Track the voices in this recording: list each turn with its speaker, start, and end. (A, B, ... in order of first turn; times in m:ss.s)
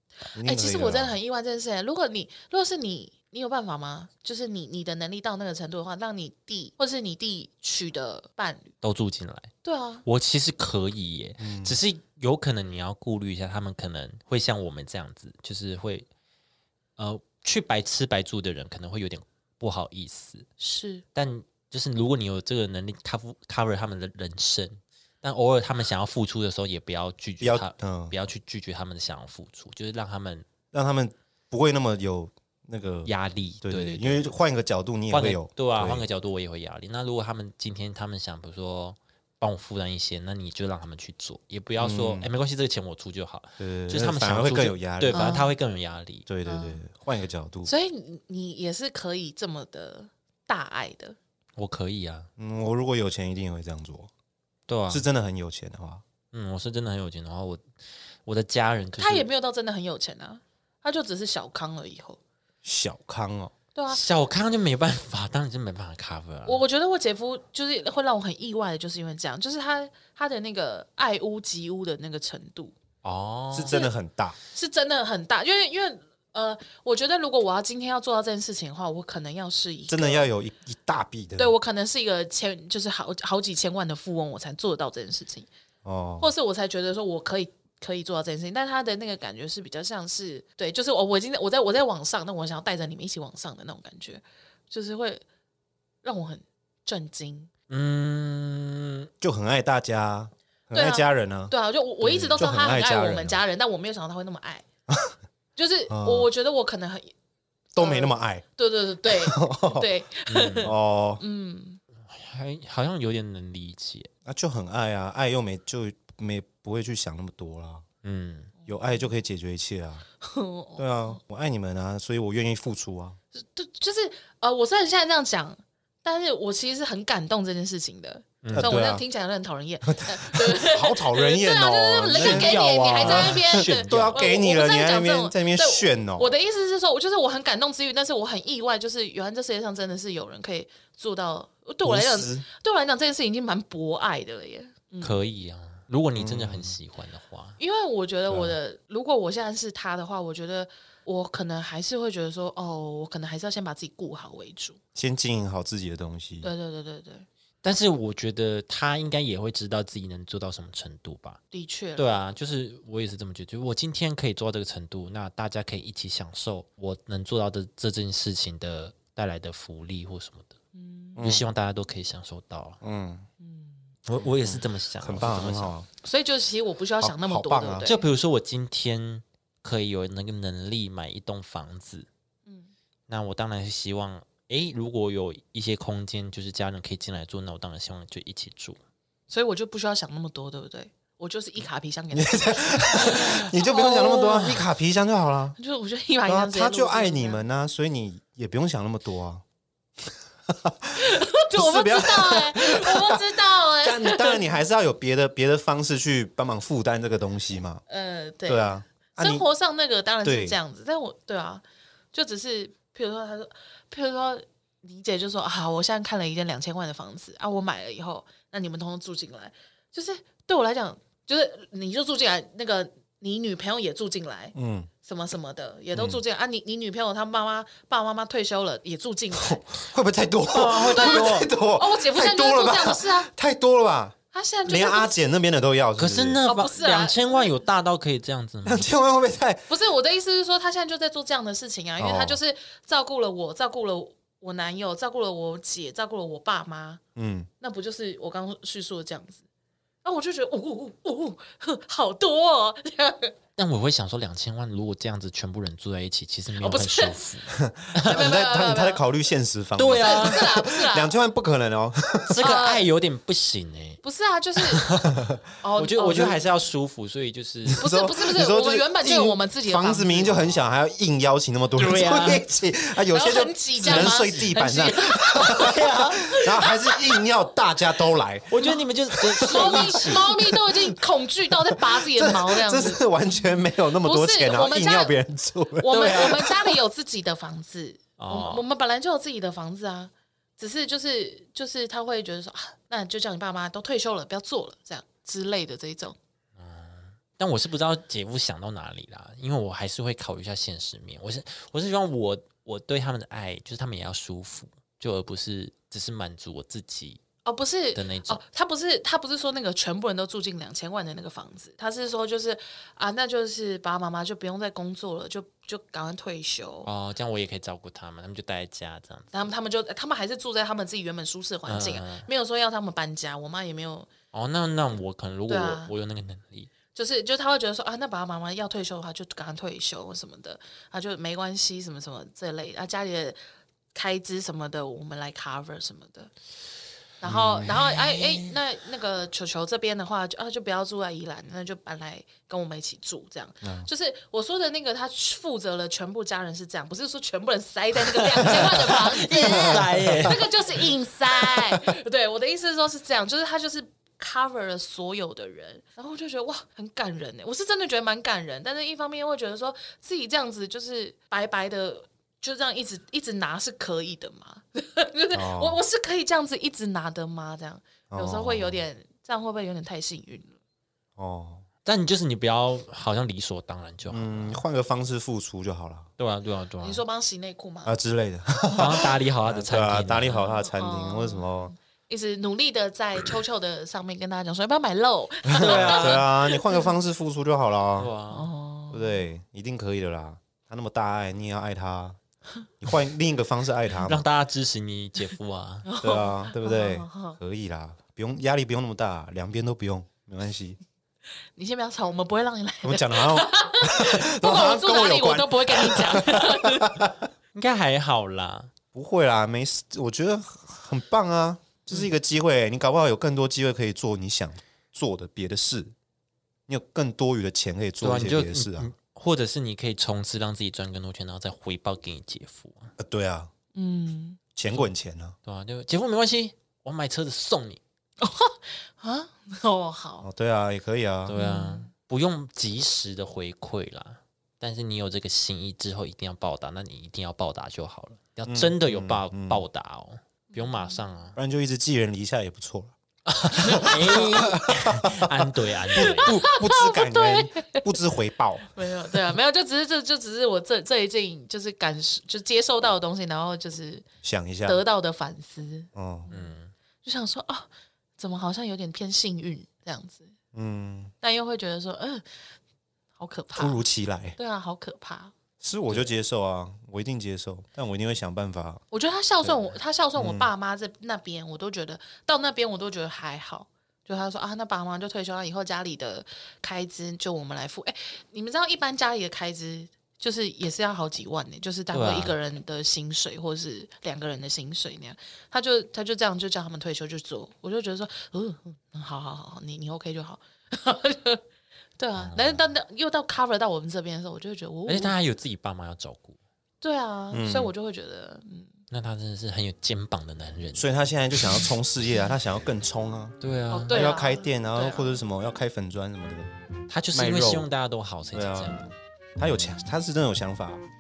0:00.3-0:01.2 A
0:00.4-0:08.7 B
0:08.8-0:09.5 C
0:09.6-0:10.0 B
0:10.0-0:16.1 C
0:11.4-0:11.8 A
0:17.0-0:20.5 C
0:20.6-0:21.0 B
0:21.2-0:30.4 C
0:27.4-0:28.1 A
0:30.7-0:36.1 A
0:33.1-0:34.3 C
0:35.1-0:46.3 C
0:41.8-0:42.3 A
0:43.6-0:45.3 A
0:45.1-0:45.5 B
0:46.3-0:47.7 A
0:46.5-0:46.8 B
0:47.7-0:51.2 B
0:51.6-0:52.3 C
0:52.4-0:54.1 A
0:54.7-0:55.1 C
0:54.9-0:56.0 A
0:56.3-0:57.7 C
0:58.2-0:59.3 C
0:59.0-1:02.2 B
1:02.6-1:03.5 A
1:03.8-1:04.0 B
1:03.9-1:06.6 C
1:06.4-1:12.8 B
1:13.0-1:13.8 C
1:13.5-1:14.4 A
1:13.7-1:13.9 B
1:14.5-1:20.3 B
1:19.9-1:21.6 A
1:21.4-1:25.5 B
1:25.8-1:26.3 A
1:26.2-1:35.2 B
1:36.0-1:37.5 B
1:37.7-1:39.1 C
1:39.2-1:41.5 A
1:40.7-1:44.7 B
1:42.0-1:42.4 C
1:42.4-1:43.4 A
1:45.6-1:47.1 B
1:45.9-1:46.3 A
1:47.7-1:48.4 A
1:47.8-1:51.8 B
1:49.0-1:49.9 A
1:50.3-1:50.7 C
1:50.6-1:51.2 A
1:52.1-1:54.1 C
1:54.3-1:57.8 A
1:58.0-1:58.5 C
1:58.6-1:59.0 B
1:58.7-2:00.0 A
2:00.2-2:01.2 B
2:00.8-2:03.2 A
2:03.4-2:25.2 B
2:08.4-2:08.7 C
2:08.5-2:09.0 A
2:09.9-2:16.3 A
2:12.1-2:14.3 C
2:21.8-2:22.5 A
2:25.0-2:27.6 C
2:26.2-2:26.8 A
2:27.6-2:34.8 B
2:28.3-2:28.6 A
2:35.0-2:36.5 A
2:36.4-2:37.3 B
2:37.6-2:41.4 C
2:41.5-2:42.0 B
2:42.0-2:50.6 C
2:50.8-2:51.2 B
2:51.2-2:51.4 A
2:51.2-2:52.8 C
2:52.8-2:53.3 A
2:53.4-2:53.8 B
2:54.1-2:55.7 C
2:54.4-2:55.9 A
2:56.0-2:58.1 B
2:57.0-2:57.9 A
2:57.8-3:02.1 C
3:02.5-3:02.7 B
3:03.1-3:08.8 C
3:09.3-3:14.6 B
3:12.1-3:15.6 A
3:14.3-3:14.5 C
3:15.6-3:17.4 B
3:16.3-3:19.4 A
3:20.5-3:23.2 A
3:21.0-3:24.4 B
3:23.8-3:27.8 A
3:27.9-3:49.6 B
3:28.5-3:29.5 A
3:30.2-3:30.6 A
3:44.6-3:44.9 A
3:45.9-3:46.2 A
3:49.4-3:56.4 A
3:50.5-3:51.5 C
3:50.8-3:53.3 B
3:54.3-3:55.2 B
3:56.0-3:58.9 C
3:56.4-3:57.5 B
3:58.6-3:59.7 A
3:59.7-4:07.0 B
4:02.0-4:02.4 A
4:07.2-4:07.5 A
4:07.6-4:09.4 B
4:10.0-4:13.3 B
4:13.6-4:18.3 C
4:16.6-4:17.2 B
4:17.5-4:22.4 A
4:18.0-4:19.0 B
4:19.8-4:20.6 C
4:20.0-4:21.1 B
4:22.3-4:24.0 C
4:22.4-4:22.9 B
4:24.0-4:24.9 B
4:24.7-4:25.2 C
4:25.1-4:25.4 A
4:25.6-4:26.4 B
4:25.8-4:27.9 C
4:27.7-4:38.6 A
4:27.8-4:30.5 B
4:31.8-4:32.4 C
4:33.1-4:37.2 B
4:33.8-4:34.1 C
4:35.5-4:36.4 C
4:38.5-4:40.4 C
4:39.1-4:40.4 A
4:39.4-4:45.1 B
4:41.5-4:46.6 A
4:45.8-4:56.2 B
4:45.9-4:46.5 C
4:48.2-4:48.6 C
4:56.6-5:07.2 C
5:07.4-5:16.9 B
5:08.0-5:08.4 C
5:16.8-5:19.3 C
5:19.3-5:24.1 B
5:21.7-5:22.3 C
5:24.3-5:26.7 C
5:25.5-5:25.9 B
5:26.9-5:33.4 B
5:33.9-5:36.3 B
5:37.2-6:10.6 B
5:37.2-5:37.8 A
5:37.7-5:38.4 C
5:43.6-5:43.9 A
5:48.4-5:50.4 A
5:48.4-5:50.9 C
5:51.4-5:51.8 A
6:05.3-6:05.8 A
6:08.1-6:08.8 A
6:11.2-6:11.6 A
6:11.8-6:14.6 C
6:14.1-6:16.1 A
6:16.2-6:17.0 C
6:16.8-6:18.0 B
6:17.9-6:21.7 A
6:18.8-6:20.4 C
6:20.3-6:26.9 B
6:25.5-6:28.1 A
6:25.6-6:26.2 C
6:28.0-6:28.5 C
6:28.3-6:29.2 B
6:28.9-6:32.2 A
6:32.8-6:34.2 A
6:34.0-6:35.9 C
6:35.9-6:37.4 B
6:36.0-6:40.8 A
6:41.6-6:47.0 B
6:42.8-6:47.3 A
6:47.5-6:48.7 C
6:48.9-6:55.9 A
6:56.7-6:58.9 A
6:58.0-7:02.9 C
7:03.0-7:03.5 A
7:03.7-7:04.4 B
7:04.6-7:05.4 A
7:05.5-7:07.8 C
7:08.2-7:10.3 B
7:10.2-7:11.4 A
7:11.2-7:21.4 C
7:11.4-7:11.9 B
7:18.5-7:19.6 A
7:20.5-7:21.0 B
7:21.4-7:22.9 A
7:23.3-7:26.4 C
7:23.6-7:29.2 A
7:23.6-7:24.0 B
7:26.0-7:28.0 B
7:28.7-7:34.1 B
7:34.2-7:34.8 A
7:34.6-7:36.5 B
7:36.0-7:36.3 A
7:36.3-7:36.7 C
7:37.0-7:40.3 B
7:40.5-7:41.1 A
7:41.2-7:42.2 B
7:43.2-7:43.8 B
7:43.6-7:44.4 A
7:44.4-7:45.3 B
7:45.6-7:48.8 A
7:48.9-8:11.4 B
7:50.2-7:50.5 A
8:01.9-8:02.4 C
8:12.0-8:15.2 B
8:12.2-8:12.5 C
8:14.9-8:16.4 C
8:16.8-8:18.7 B
8:17.3-8:17.7 A
8:18.9-8:21.7 C
8:20.8-8:23.4 A
8:23.4-8:24.0 C
8:23.7-8:25.2 B
8:23.9-8:26.5 A
8:26.9-8:28.8 C
8:27.1-8:27.7 A
8:28.3-8:30.8 A